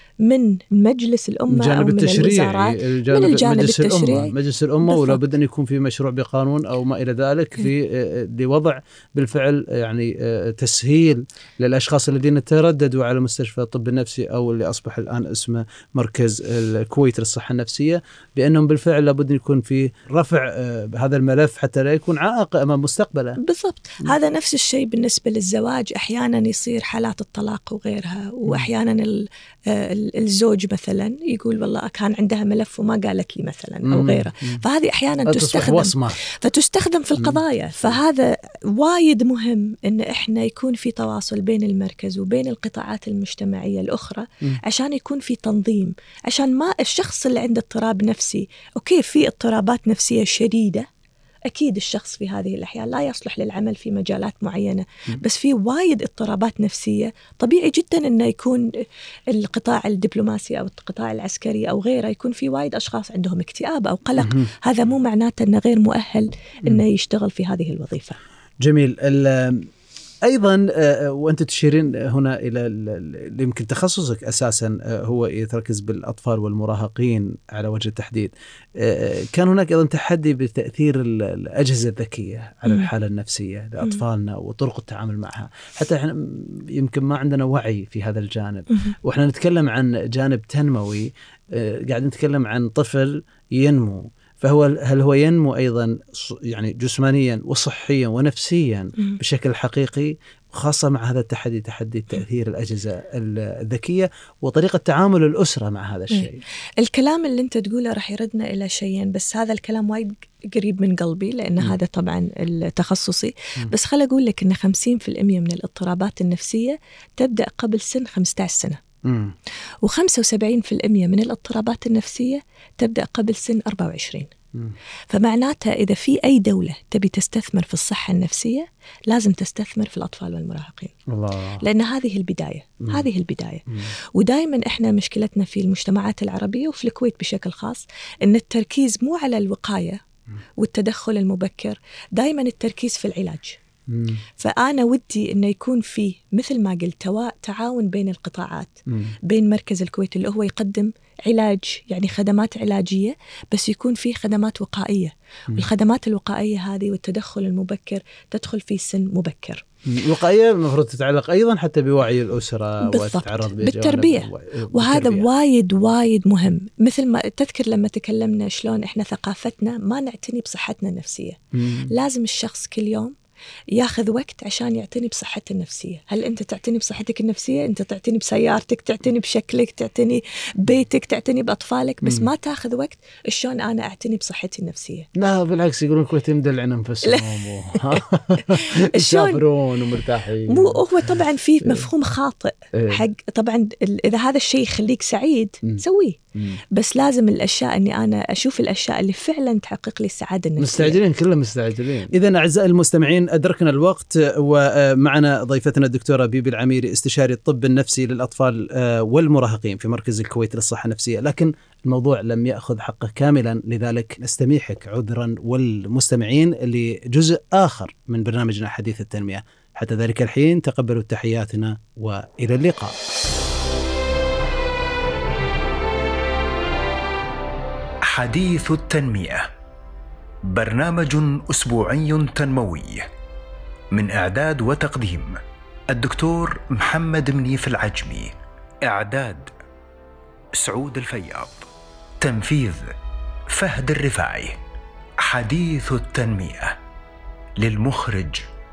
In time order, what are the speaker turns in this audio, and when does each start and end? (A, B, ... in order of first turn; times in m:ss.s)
0:00.2-0:05.2 A
0:01.5-0:23.4 B
0:23.4-0:50.9 A
0:33.8-0:34.6 B
0:35.2-0:36.2 B
0:37.2-0:38.0 B
0:51.4-0:58.7 A
0:59.3-1:08.2 A
1:04.2-1:04.5 B
1:08.6-1:09.7 B
1:10.2-1:46.4 B
1:46.8-1:58.8 A
1:59.0-1:59.3 B
1:59.8-2:04.3 A
2:05.1-2:10.9 A
2:11.1-2:11.6 B
2:11.6-2:20.0 A
2:20.6-2:23.6 A
2:23.9-2:24.2 B
2:24.4-2:39.6 A
2:28.9-2:29.1 B
2:39.8-2:45.3 B
2:42.8-2:51.4 A
2:51.5-2:51.9 B
2:51.9-2:53.1 A
2:53.8-3:05.1 A
3:05.1-3:11.9 B
3:08.4-3:09.4 A
3:10.5-3:16.2 A
3:12.7-3:13.0 B
3:16.7-3:21.0 A
3:20.6-3:43.0 B
3:48.1-3:49.5 C
3:50.5-3:53.1 C
3:53.9-3:55.4 C
3:55.9-3:59.5 C
4:00.5-4:01.6 C
4:02.2-4:02.9 C
4:03.5-4:04.6 C
4:05.2-4:06.8 C
4:07.6-4:08.4 C